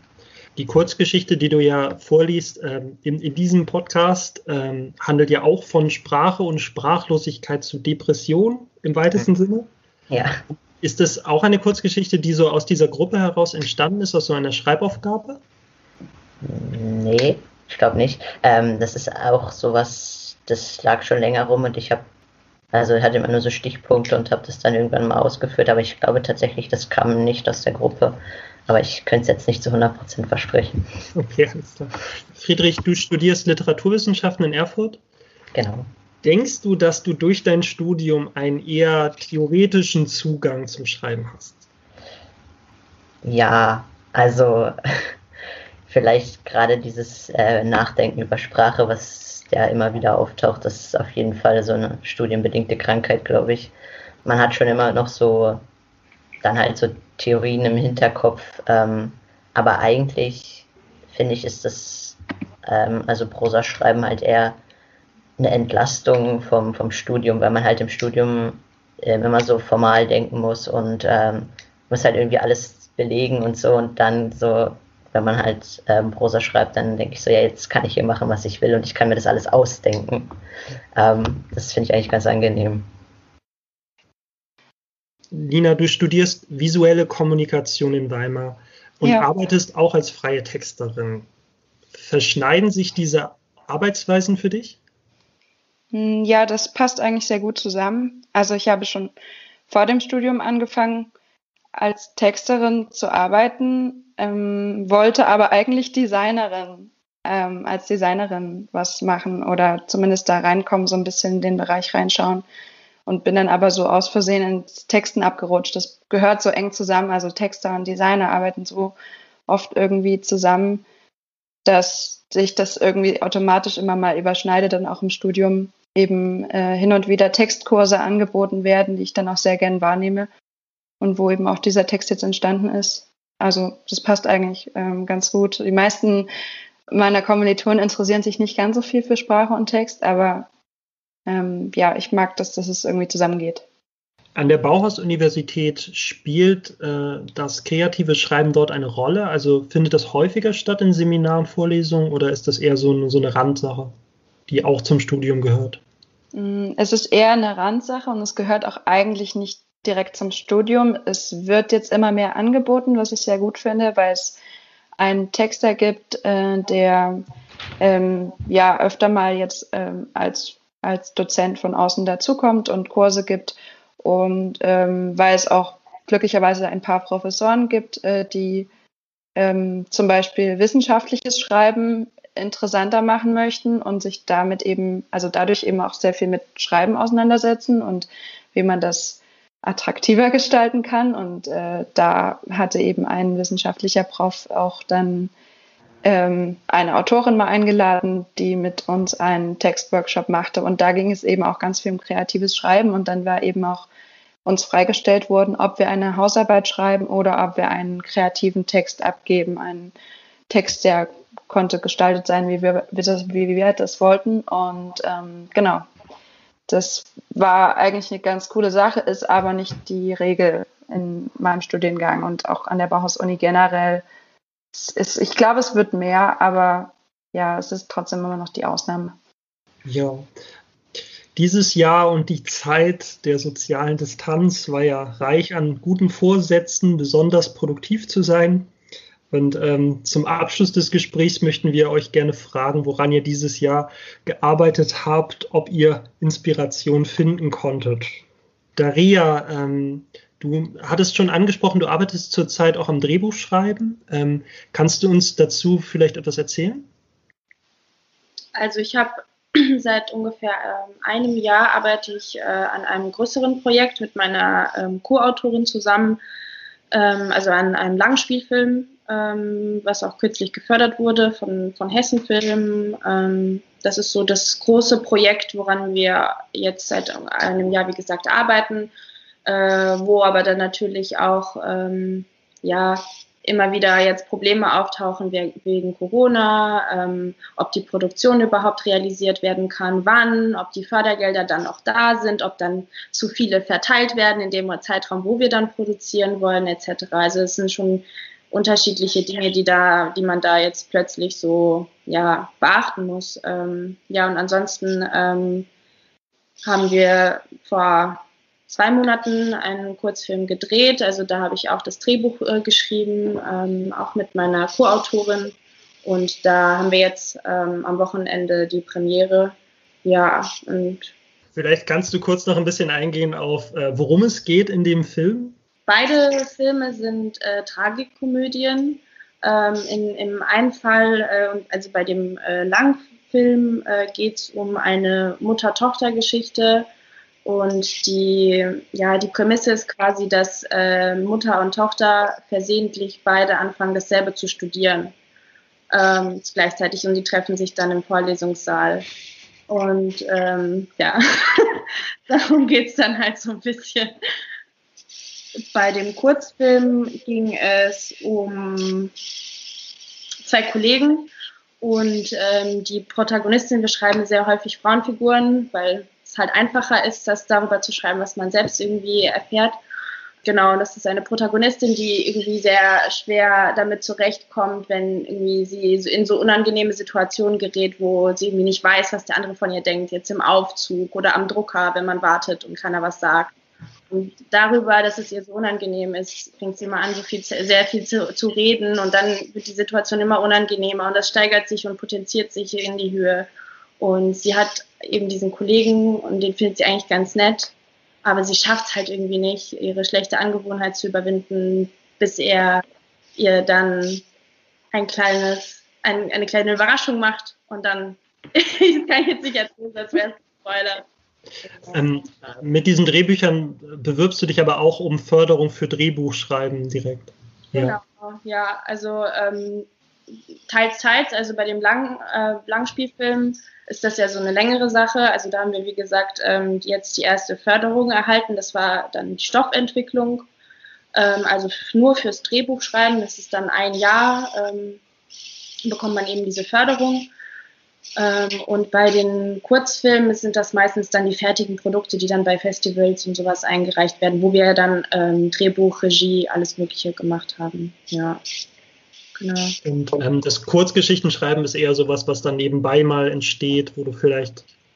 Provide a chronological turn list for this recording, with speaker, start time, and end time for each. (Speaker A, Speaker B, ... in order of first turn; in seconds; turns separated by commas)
Speaker A: 0.6-9.7, Speaker B: 10.1-10.4, Speaker A: 10.8-15.4, Speaker B: 16.4-22.0, Speaker B: 22.7-30.8, Speaker A: 31.1-35.0, Speaker B: 35.5-35.9, Speaker A: 36.2-41.6, Speaker B: 43.2-44.7, Speaker B: 45.9-53.7, Speaker B: 54.2-55.6, Speaker B: 56.4-64.6, Speaker B: 65.4-80.3, Speaker B: 81.0-82.9, Speaker A: 85.3-91.3, Speaker A: 91.9-94.8, Speaker C: 95.9-99.1, Speaker C: 99.7-101.1, Speaker C: 101.8-112.5, Speaker C: 113.0-118.9, Speaker C: 119.5-120.8, Speaker C: 121.7-130.3, Speaker C: 131.0-136.3, Speaker C: 136.9-140.5, Speaker C: 141.3-143.6, Speaker A: 144.3-153.9, Speaker A: 154.5-155.8, Speaker C: 156.3-164.4, Speaker C: 165.0-167.2, Speaker C: 167.8-178.7, Speaker C: 179.4-195.3, Speaker C: 196.0-203.9, Speaker C: 204.4-209.9, Speaker C: 210.5-215.8, Speaker C: 216.7-224.0, Speaker C: 224.7-229.1, Speaker A: 229.8-230.3, Speaker A: 231.3-238.7, Speaker A: 239.3-248.1, Speaker A: 248.8-256.9, Speaker D: 258.6-266.2, Speaker D: 266.9-278.9, Speaker D: 279.4-305.7, Speaker D: 306.6-321.1, Speaker A: 321.5-325.6, Speaker D: 325.9-336.9, Speaker D: 337.4-345.1, Speaker D: 345.9-349.1, Speaker D: 349.7-354.1, Speaker D: 355.7-359.1, Speaker D: 360.4-361.3, Speaker D: 361.8-369.8, Speaker D: 370.4-383.5, Speaker D: 384.1-402.8, Speaker D: 403.4-404.2, Speaker D: 404.9-411.0, Speaker A: 411.9-418.0, Speaker D: 417.7-419.9, Speaker D: 420.7-430.5, Speaker D: 431.1-435.0, Speaker D: 435.8-437.3, Speaker D: 438.2-448.4, Speaker D: 449.4-449.8, Speaker A: 449.8-454.6